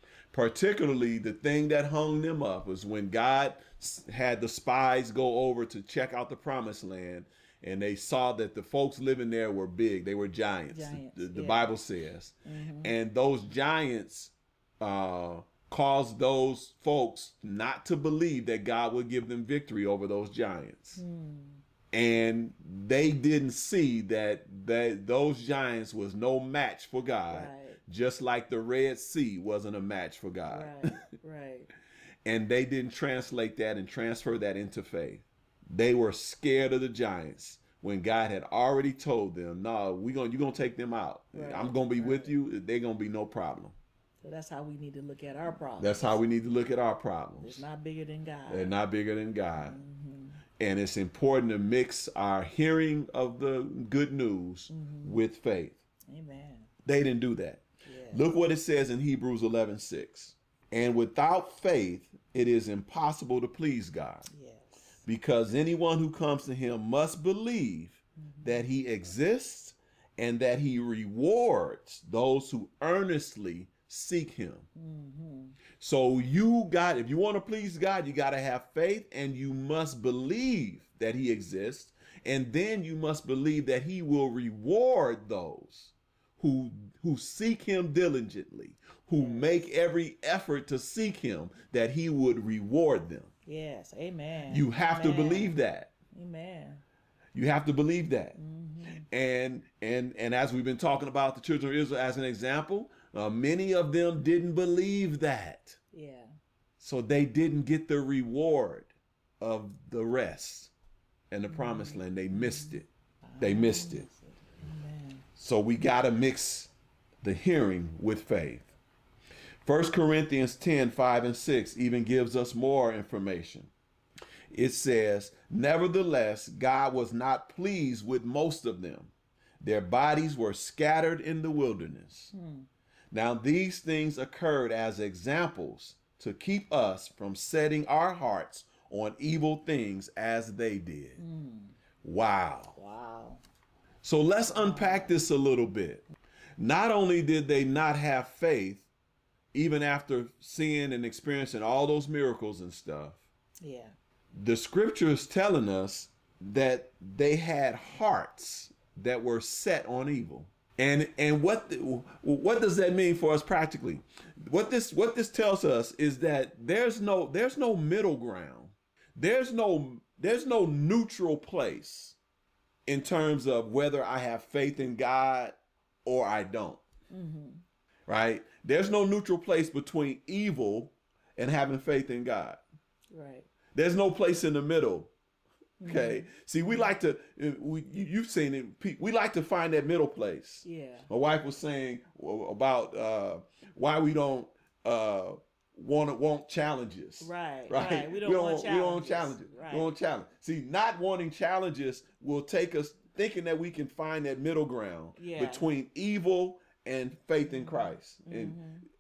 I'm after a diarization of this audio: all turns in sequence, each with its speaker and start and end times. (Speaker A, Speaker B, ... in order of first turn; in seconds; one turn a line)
Speaker A: 0.3-21.0
Speaker B: 10.7-11.8
Speaker B: 12.5-12.9
Speaker B: 21.0-21.6
Speaker A: 21.9-31.1
Speaker B: 27.3-27.8
Speaker B: 30.5-31.7
Speaker A: 32.2-43.8
Speaker B: 41.3-42.3
Speaker B: 44.2-46.2
Speaker A: 45.8-47.6
Speaker B: 47.4-48.7
Speaker A: 48.5-49.8
Speaker B: 49.5-50.4
Speaker A: 50.6-55.8
Speaker B: 54.7-55.2
Speaker B: 56.1-56.7
Speaker A: 56.9-64.3
Speaker B: 57.9-58.3
Speaker B: 64.3-65.0
Speaker A: 65.0-74.7
Speaker B: 68.2-68.7
Speaker B: 74.8-75.6
Speaker A: 75.8-93.3
Speaker B: 89.2-89.7
Speaker B: 93.5-95.6
Speaker A: 94.5-95.9
Speaker B: 96.1-96.8
Speaker A: 97.3-98.4
Speaker B: 98.4-99.0
Speaker A: 99.0-105.8
Speaker B: 105.9-106.3
Speaker A: 106.8-110.7
Speaker A: 111.3-112.9
Speaker B: 111.5-115.2
Speaker A: 113.4-114.1
Speaker A: 115.4-116.7
Speaker A: 117.2-118.7
Speaker A: 119.6-123.7
Speaker A: 124.5-132.3
Speaker B: 132.3-132.7
Speaker A: 133.1-141.2
Speaker B: 141.2-141.8
Speaker A: 142.0-142.8
Speaker B: 142.8-143.4
Speaker A: 144.0-146.0
Speaker B: 144.5-145.3
Speaker A: 146.6-148.9
Speaker A: 149.5-153.2
Speaker B: 153.6-153.9
Speaker A: 154.3-172.2
Speaker A: 172.9-176.8
Speaker B: 177.1-177.6
Speaker A: 178.1-182.6
Speaker B: 183.1-183.5
Speaker A: 183.7-185.1
Speaker B: 185.8-187.0
Speaker A: 185.9-208.6
Speaker B: 190.6-191.1
Speaker B: 197.2-199.9
Speaker B: 205.2-205.7
Speaker B: 207.5-208.8